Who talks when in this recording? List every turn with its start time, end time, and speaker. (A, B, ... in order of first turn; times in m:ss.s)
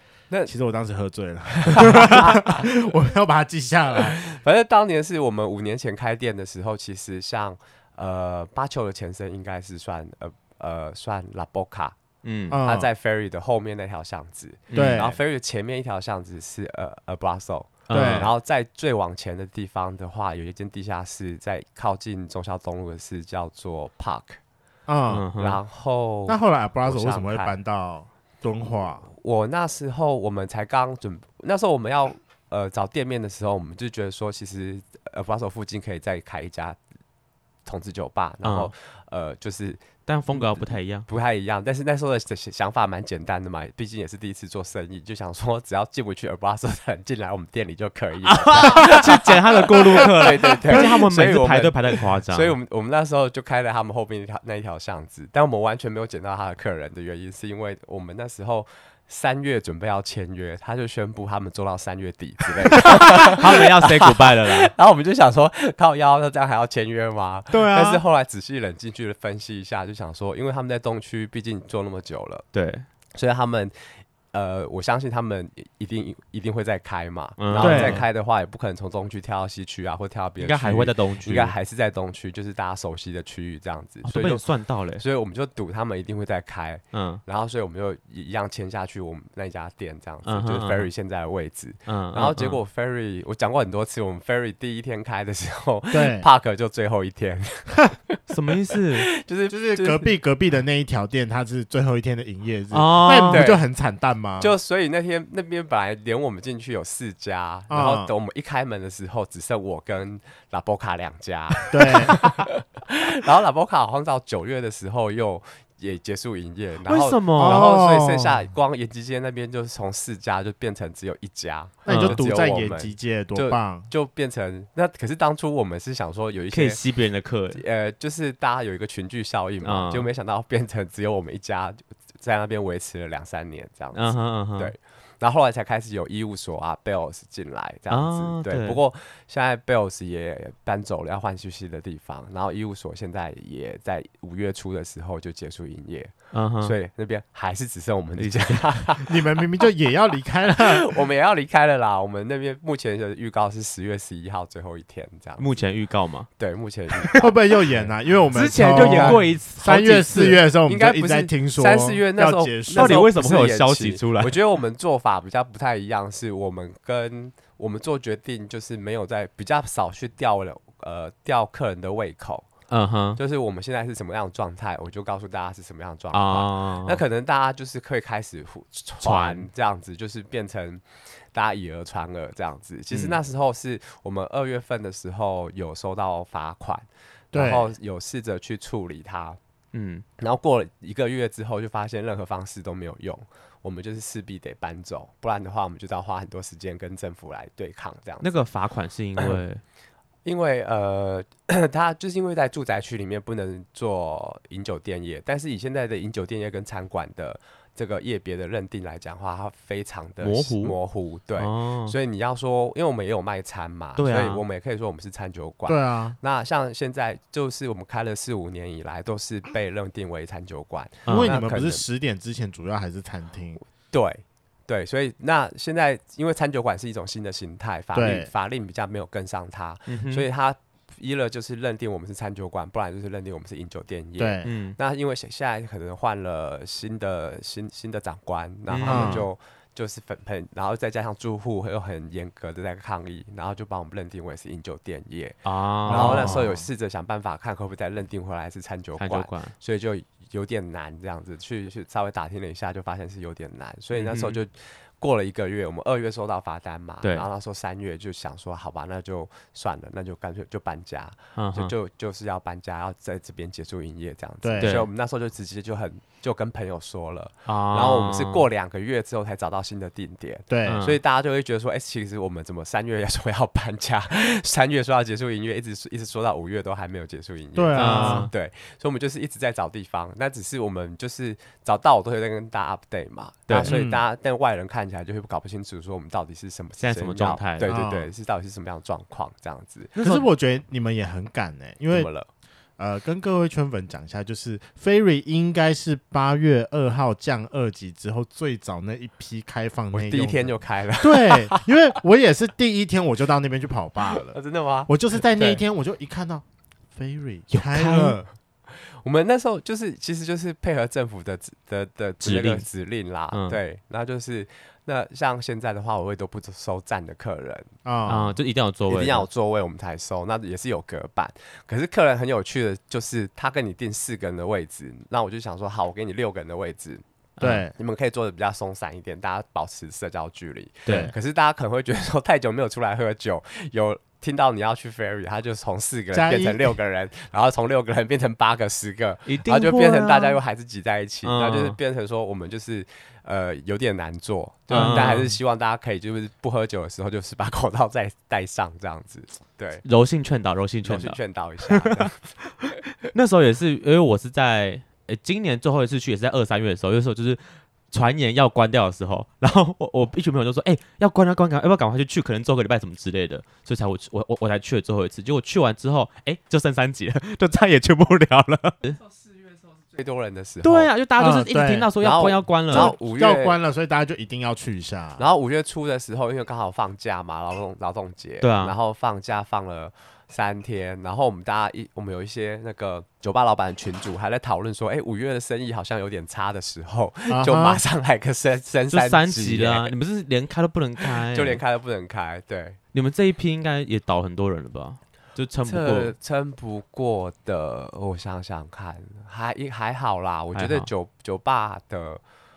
0:00.4-0:04.2 A
0:01.6-0:02.7 B
0:04.1-0:12.0 B
0:12.2-0:12.6 C
0:12.5-0:12.9 A
0:12.5-0:24.4 B
0:14.7-0:15.0 C
0:14.7-0:15.2 A
0:17.9-0:18.3 C
0:17.9-0:18.3 A
0:24.9-0:25.3 A
0:25.1-0:25.6 C
0:25.4-0:27.5 B
0:26.3-0:29.1 A
0:29.0-0:36.8 B
0:37.6-1:12.4 B
0:38.4-0:38.7 C
0:40.1-0:41.1 C
0:48.3-0:52.5 C
1:02.8-1:04.7 C
1:07.5-1:08.0 A
1:12.5-1:12.9 C
1:13.1-1:38.2 B
1:17.4-1:18.0 C
1:17.6-1:18.0 A
1:20.4-1:21.5 C
1:24.0-1:25.0 C
1:26.9-1:27.2 C
1:30.2-1:30.9 C
1:31.9-1:32.6 C
1:35.9-1:36.3 A
1:38.3-1:39.1 C
1:38.7-1:40.1 B
1:39.5-1:44.5 A
1:42.7-1:43.5 C
1:43.3-1:43.6 B
1:44.4-2:06.8 B
1:47.7-1:48.1 A
1:51.7-1:52.2 A
1:56.9-1:57.7 C
1:57.4-1:58.4 A
2:01.9-2:03.9 A
2:01.9-2:02.2 C
2:06.5-2:07.6 C
2:07.5-2:29.4 B
2:09.6-2:10.1 C
2:13.9-2:14.7 C
2:17.9-2:18.8 C
2:26.3-2:26.8 C
2:28.2-2:28.9 C
2:29.0-2:30.9 A
2:30.6-2:35.5 B
2:35.4-2:36.3 C
2:36.4-2:37.9 B
2:37.0-2:37.3 C
2:37.2-2:43.0 A
2:38.3-2:40.4 C
2:38.7-2:39.2 B
2:40.6-2:52.5 B
2:42.8-2:44.4 C
2:52.7-2:53.2 C
2:53.2-3:09.4 B
2:56.1-2:57.0 C
2:59.0-2:59.5 C
3:02.9-3:03.2 C
3:07.3-3:07.7 A
3:09.7-3:10.0 C
3:10.2-3:18.3 B
3:18.2-3:19.6 C
3:20.2-3:41.8 B
3:30.2-3:30.8 C
3:31.4-3:32.0 C
3:34.0-3:34.4 C
3:35.7-3:36.2 A
3:41.0-3:41.4 C
3:41.1-3:43.6 A
3:43.9-4:50.0 B
3:47.9-3:48.3 A
3:49.9-3:50.2 C
3:54.2-3:54.5 A
3:54.4-3:54.8 C
3:58.7-3:59.3 C
3:58.8-3:59.3 A
4:05.4-4:06.5 C
4:05.9-4:06.7 A
4:09.0-4:09.5 C
4:13.9-4:14.4 C
4:21.4-4:21.7 C
4:24.4-4:24.8 A
4:24.6-4:24.9 C
4:27.4-4:28.5 C
4:30.5-4:30.8 A
4:30.6-4:31.0 C
4:37.5-4:38.3 A
4:37.8-4:38.3 C
4:43.5-4:43.8 C
4:43.6-4:44.0 A
4:46.8-4:47.7 C
4:47.6-4:48.1 A
4:50.0-4:50.3 C
4:50.0-4:52.1 A
4:51.9-4:52.3 B
4:52.8-5:06.4 A
4:59.9-5:01.7 B
5:04.3-5:05.6 B
5:06.9-5:08.3 A
5:07.5-5:08.2 C
5:09.0-5:17.7 B
5:12.2-5:12.6 C
5:13.3-5:13.6 C
5:17.8-5:18.4 A
5:18.1-5:19.2 C
5:18.9-5:27.0 B
5:27.4-5:27.6 C
5:27.4-5:27.8 A
5:27.8-5:49.8 B
5:30.9-5:31.1 C
5:30.9-5:31.1 A
5:36.1-5:36.8 A
5:39.2-5:40.4 C
5:41.2-5:41.8 C
5:44.7-5:45.4 C
5:49.8-5:51.2 C
5:50.8-5:52.3 B
5:51.7-5:52.1 C
5:52.6-5:57.4 C
5:57.9-6:09.0 C
6:09.2-6:10.9 B
6:10.6-6:12.9 C
6:11.2-6:11.9 A
6:12.0-6:13.6 B
6:12.7-6:15.2 A
6:15.2-6:29.9 B
6:18.4-6:18.7 C
6:27.3-6:27.8 A
6:28.9-6:31.6 C
6:31.0-6:32.8 B
6:32.9-6:36.1 C
6:35.6-6:42.2 B
6:40.5-6:40.9 C